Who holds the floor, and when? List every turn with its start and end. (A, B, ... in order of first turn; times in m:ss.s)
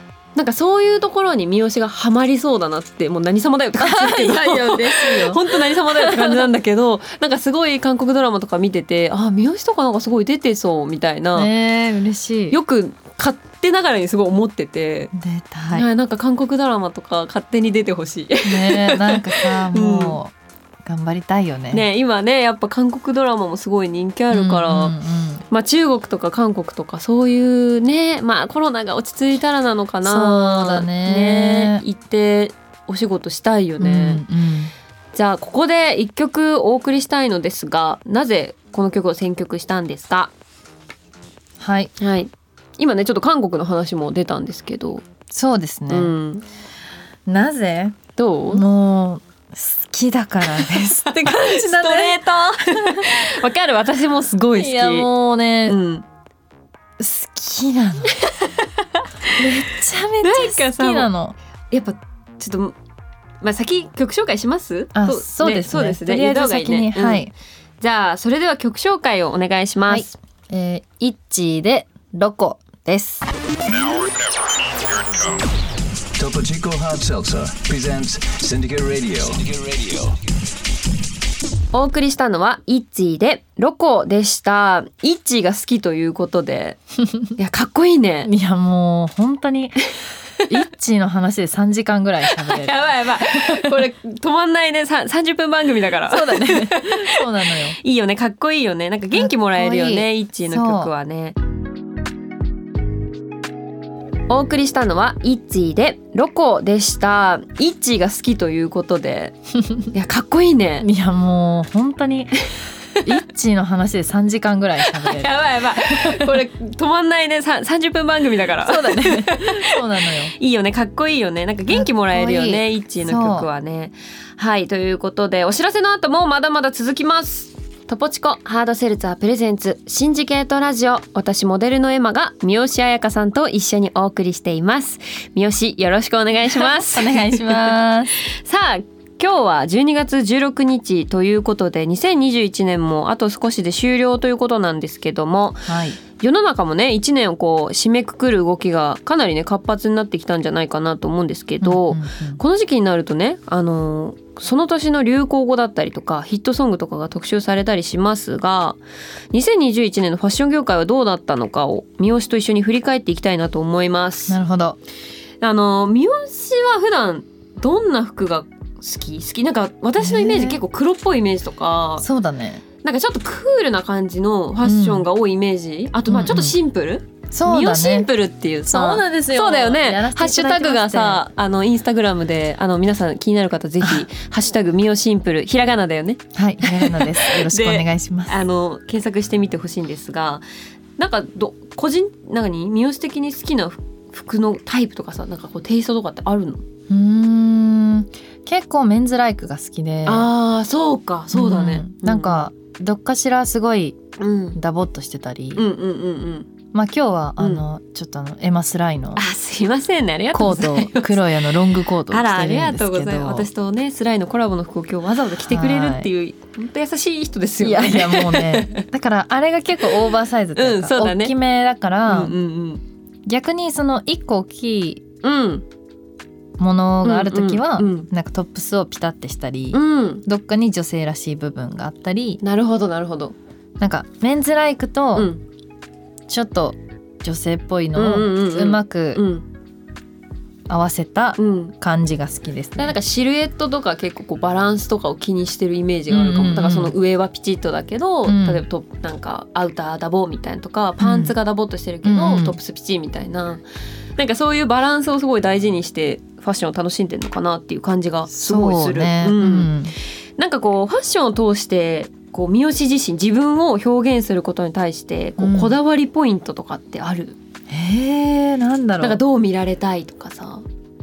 0:00.4-0:11.5 A
0:03.8-0:06.4 B
0:11.3-0:12.6 B
0:12.5-0:15.1 A
0:15.1-0:15.9 B
0:15.7-0:20.2 A
0:18.4-0:20.3 B
0:20.8-0:21.8 B
0:21.7-0:24.9 A
0:24.3-0:25.4 B
0:25.5-0:34.2 A
0:30.0-0:31.8 B
0:33.8-0:34.7 B
0:35.1-0:40.3 A
0:41.6-0:41.9 B
0:42.0-0:45.0 A
0:45.3-0:46.1 B
0:45.9-0:46.4 A
0:47.2-0:48.0 B
0:48.2-0:48.6 A
0:48.5-0:53.1 B
0:50.6-0:55.1 A
0:54.6-0:55.8 B
0:55.7-0:56.0 A
0:57.0-0:58.2 B
0:58.1-1:01.1 A
0:59.4-1:01.4 B
1:01.7-1:02.7 A
1:03.4-1:07.3 A
1:04.9-1:07.3 B
1:07.8-1:10.1 A
1:09.9-1:13.2 B
1:16.2-1:20.1 C
1:21.7-1:26.8 A
1:27.4-1:28.3 A
1:28.2-1:29.8 B
1:30.5-1:33.8 B
1:32.3-1:41.4 A
1:36.1-1:37.8 B
1:39.1-1:40.9 B
1:44.3-1:49.4 A
1:49.6-1:49.9 B
1:49.9-1:50.9 A
1:50.8-1:52.5 B
1:53.0-1:56.4 B
1:54.9-2:38.8 A
1:58.6-2:00.3 B
2:01.7-2:03.5 B
2:16.4-2:18.1 B
2:25.7-2:26.0 B
2:31.6-2:32.4 B
2:39.3-2:44.4 A
2:44.3-2:44.8 B
2:45.4-2:52.0 A
2:50.0-2:50.6 B
2:52.0-2:52.6 B
2:52.8-3:10.4 A
2:54.6-2:55.1 B
2:56.1-2:56.6 B
2:57.3-2:58.1 B
2:58.6-3:01.2 B
3:06.3-3:08.4 B
3:11.0-3:16.6 A
3:16.9-3:20.3 B
3:20.0-3:22.4 A
3:21.3-3:24.0 B
3:24.2-3:24.6 A
3:24.5-3:25.6 B
3:25.5-3:26.5 A
3:26.7-3:29.2 B
3:27.4-3:27.6 A
3:29.2-3:38.8 A
3:30.3-3:33.5 B
3:35.4-3:36.1 B
3:37.6-3:42.3 B
3:40.5-3:41.3 A
3:42.1-3:42.8 A
3:43.2-3:45.0 B
3:45.2-3:45.6 A
3:46.6-3:52.4 B
3:47.0-3:48.1 A
3:49.7-3:50.2 A
3:52.4-3:53.3 A
3:53.8-3:55.3 B
3:55.1-3:55.4 A
3:56.3-3:59.2 B
3:57.9-3:59.4 A
4:00.7-4:02.9 B
4:01.4-4:01.7 A
4:02.8-4:13.6 A
4:06.1-4:06.9 B
4:08.2-4:08.6 B
4:11.0-4:11.3 B
4:12.0-4:12.6 B
4:14.2-4:19.7 A
4:18.3-4:19.9 B
4:20.4-4:27.4 A
4:25.4-4:25.8 B
4:27.7-4:29.2 B
4:29.0-4:30.6 A